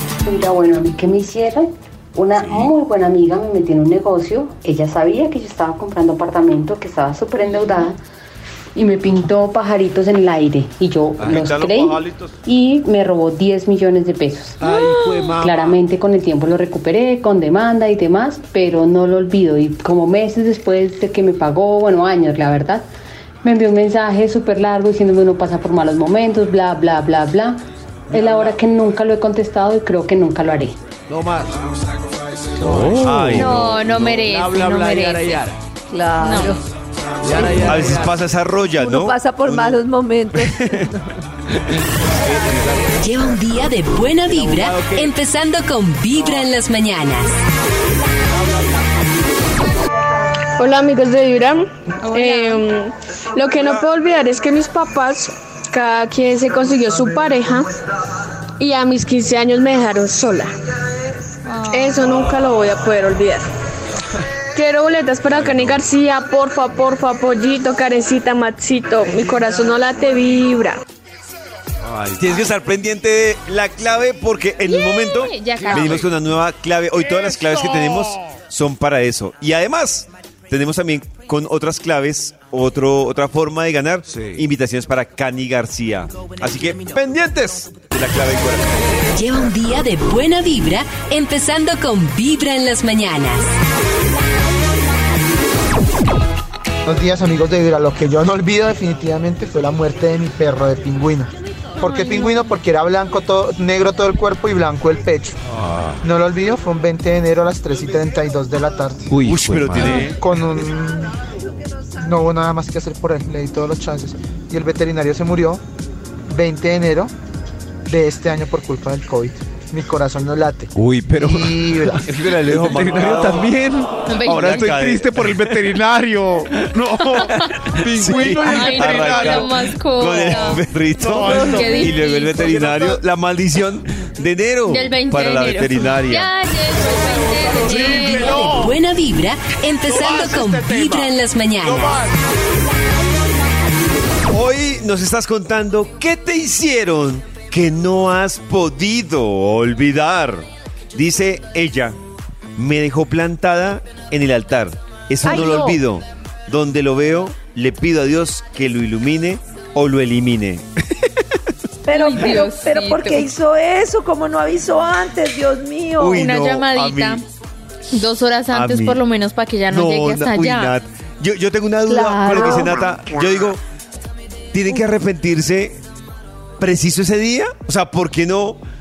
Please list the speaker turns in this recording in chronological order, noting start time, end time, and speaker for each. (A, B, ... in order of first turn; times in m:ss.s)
0:00.2-0:08.0 A
0:08.8-0:14.7 A
0:11.2-0:12.3 B
0:14.6-0:15.8 C
0:14.7-0:15.2 D
0:15.4-0:22.8 A
0:23.4-0:27.6 A
0:28.1-0:30.8 A
0:28.2-0:28.5 C
0:31.1-0:31.5 C
0:32.6-0:35.6 C
0:33.0-0:34.0 B
0:33.2-0:35.5 D
0:35.9-0:36.6 E
0:36.2-0:36.6 D
0:37.2-0:38.2 C
0:37.3-0:38.0 E
0:37.6-0:39.8 B
0:38.7-0:41.2 E
0:40.4-0:40.9 B
0:42.2-0:43.0 C
0:43.0-0:47.3 F
0:44.3-0:45.1 C
0:50.6-0:57.7 G
0:52.0-0:52.6 D
0:58.6-1:00.5 G
1:01.4-1:02.0 D
1:01.7-1:03.5 G
1:04.6-1:10.8 G
1:05.4-1:05.7 B
1:11.9-1:12.3 C
1:12.1-1:29.0 B
1:14.7-1:16.1 D
1:15.6-1:16.0 C
1:29.2-1:33.4 F
1:36.8-1:45.4 H
1:41.8-1:42.5 D
1:45.5-1:46.0 C
1:46.0-1:49.1 H
1:49.1-1:50.0 C
1:49.3-1:50.2 B
1:49.8-1:51.2 H
1:52.0-1:55.6 H
1:56.3-1:57.1 H
1:57.9-2:02.1 H
2:00.8-2:09.6 C
2:02.0-2:03.6 B
2:04.1-2:04.5 D
2:04.2-2:05.7 B
2:06.9-2:07.6 D
2:07.3-2:16.3 B
2:08.4-2:10.6 D
2:11.0-2:13.0 C
2:11.4-2:12.5 D
2:14.7-2:18.7 D
2:17.0-2:18.7 C
2:18.3-2:22.0 F
2:19.9-2:22.1 C
2:24.3-2:32.0 B
2:32.6-2:41.3 B
2:35.3-2:35.7 E
2:41.8-2:46.3 E
2:41.9-2:43.3 D
2:46.0-2:47.2 B
2:46.2-2:47.2 D
2:47.9-2:50.8 D
2:48.5-2:49.0 B
2:49.7-2:53.6 B
2:51.9-2:53.1 E
2:54.5-2:55.8 B
2:56.6-2:58.6 B